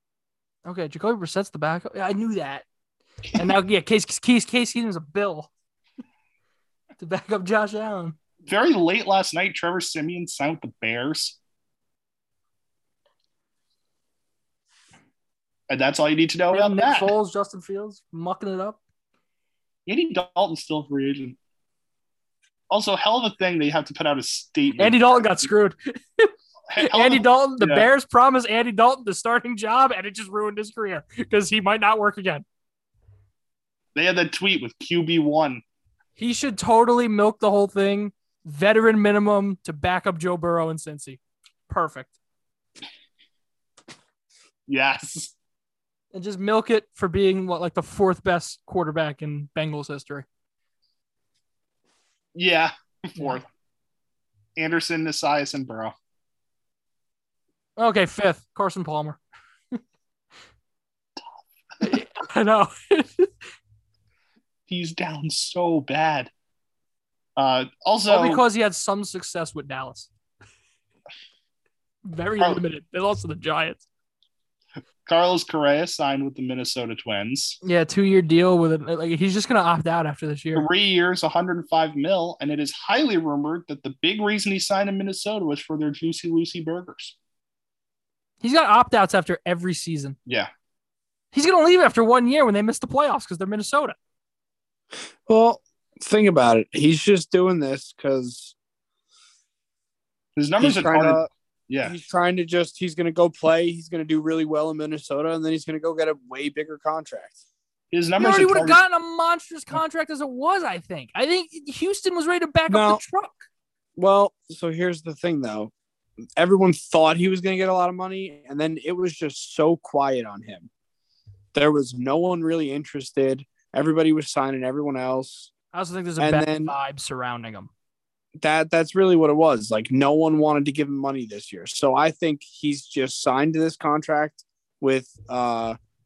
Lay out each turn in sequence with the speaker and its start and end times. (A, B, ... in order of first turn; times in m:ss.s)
0:00.7-0:02.6 A
0:03.4-0:05.5 A
0:07.0-0:08.2 A
0:08.5-0:11.4 B
0:15.7-0:17.1 B
0:16.5-0:18.8 A
0:19.9-0:21.4 B
0:22.7-0:25.5 B
0:24.8-0:32.4 A
0:26.7-0:27.9 B
0:34.0-0:35.6 B
0:36.2-0:42.2 A
0:44.7-0:45.3 B
0:46.1-0:50.3 A
0:52.4-0:53.4 B
0:54.6-0:55.9 B
0:57.8-0:59.2 A
1:01.8-1:03.3 A
1:04.7-1:06.3 B
1:07.4-1:08.4 B
1:08.1-1:10.1 A
1:12.0-1:13.8 A
1:15.1-1:17.6 B
1:17.6-1:20.7 A
1:20.6-1:27.2 B
1:28.4-1:30.2 A
1:31.3-1:34.0 A
1:35.3-1:38.6 C
1:40.4-1:42.0 B
1:40.6-1:41.3 C
1:41.8-1:47.4 C
1:47.9-1:48.8 B
1:48.2-1:53.4 A
1:52.7-1:53.0 C
1:54.0-1:55.7 C
1:56.4-2:00.7 C
2:01.5-2:05.5 C
2:05.7-2:07.7 A
2:06.2-2:06.8 C
2:08.4-2:15.8 C